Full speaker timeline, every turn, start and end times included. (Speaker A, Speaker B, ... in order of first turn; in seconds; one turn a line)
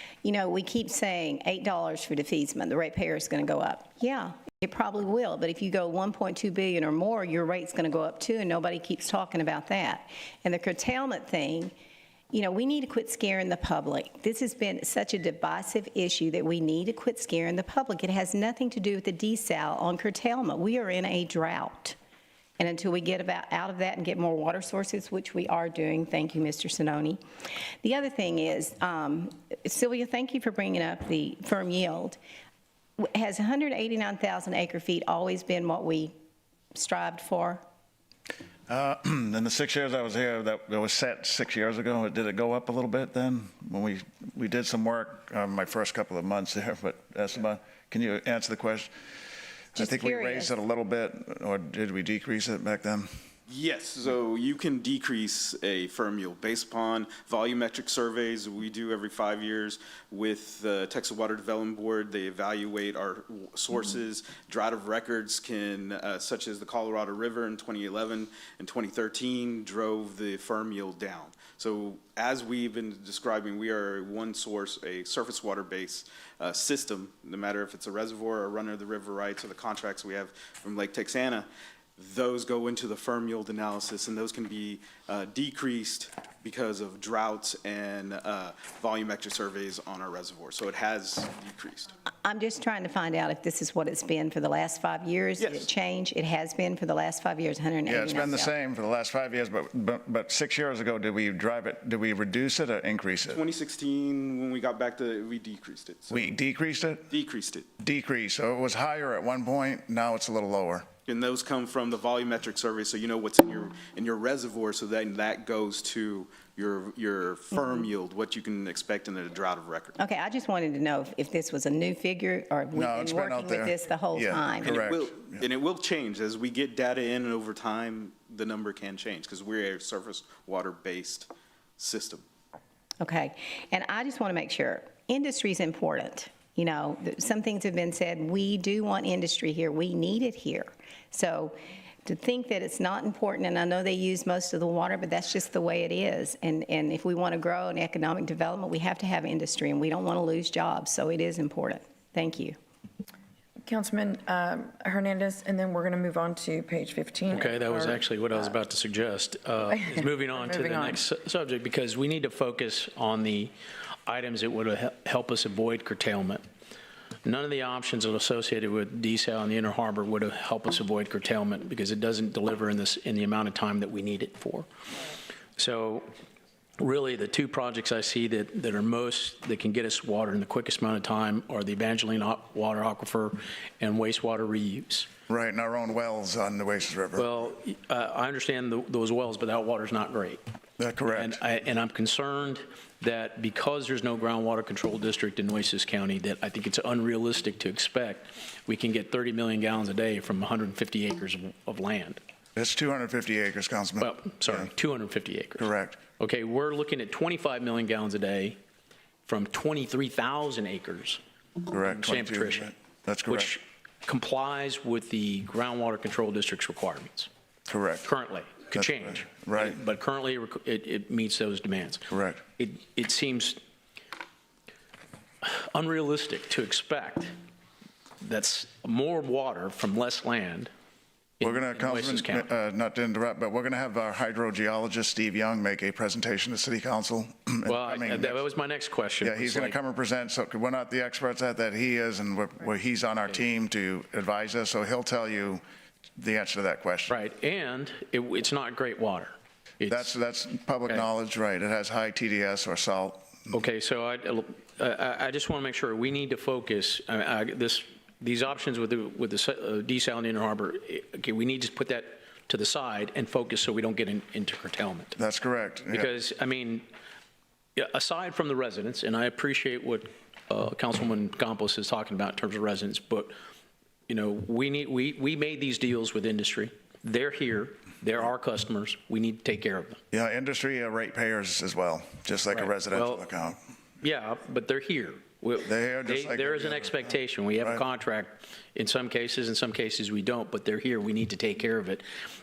Speaker A: 0.2-11.7
Speaker A: 12.3-22.0
Speaker A: 22.6-27.2
Speaker A: 27.8-32.2
Speaker A: 33.0-36.1
Speaker A: 36.7-37.6
Speaker B: 38.7-48.9
Speaker B: 49.8-53.1
Speaker A: 49.8-50.5
Speaker C: 53.5-91.9
Speaker A: 92.2-98.5
Speaker C: 95.4-95.7
Speaker B: 97.9-103.4
Speaker C: 103.3-106.3
Speaker B: 106.1-107.1
Speaker C: 107.1-107.7
Speaker B: 107.8-110.9
Speaker C: 111.1-120.0
Speaker A: 120.0-124.8
Speaker B: 122.8-125.4
Speaker C: 124.6-132.2
Speaker A: 133.0-152.6
Speaker D: 153.7-158.0
Speaker E: 157.3-163.5
Speaker D: 159.8-161.0
Speaker E: 164.1-166.4
Speaker E: 167.2-174.7
Speaker E: 175.6-176.1
Speaker E: 176.8-185.1
Speaker B: 185.3-187.3
Speaker E: 187.2-190.4
Speaker B: 190.8-191.4
Speaker E: 191.1-202.2
Speaker B: 202.6-204.7
Speaker E: 204.0-205.7
Speaker B: 205.6-206.0
Speaker E: 206.2-208.6
Speaker E: 209.3-211.2
Speaker B: 211.7-213.6
Speaker E: 211.8-212.7
Speaker E: 213.3-217.3
Speaker B: 217.7-218.1
Speaker E: 218.0-222.1
Speaker B: 218.7-219.8
Speaker B: 222.1-222.4
Speaker E: 222.6-223.6
Speaker E: 225.4-227.3
Speaker E: 228.2-230.7
Speaker E: 231.4-232.5
Speaker B: 231.4-238.4
Speaker E: 237.7-239.8
Speaker B: 239.2-245.6
Speaker B: 246.2-247.1
Speaker E: 247.1-250.1
Speaker B: 249.8-253.5
Speaker E: 253.5-265.2
Speaker B: 265.2-266.1
Speaker E: 265.9-266.9
Speaker E: 267.8-273.3
Speaker E: 274.1-280.0
Speaker B: 280.1-283.6
Speaker E: 282.5-283.3
Speaker E: 284.0-292.0
Speaker B: 285.6-287.8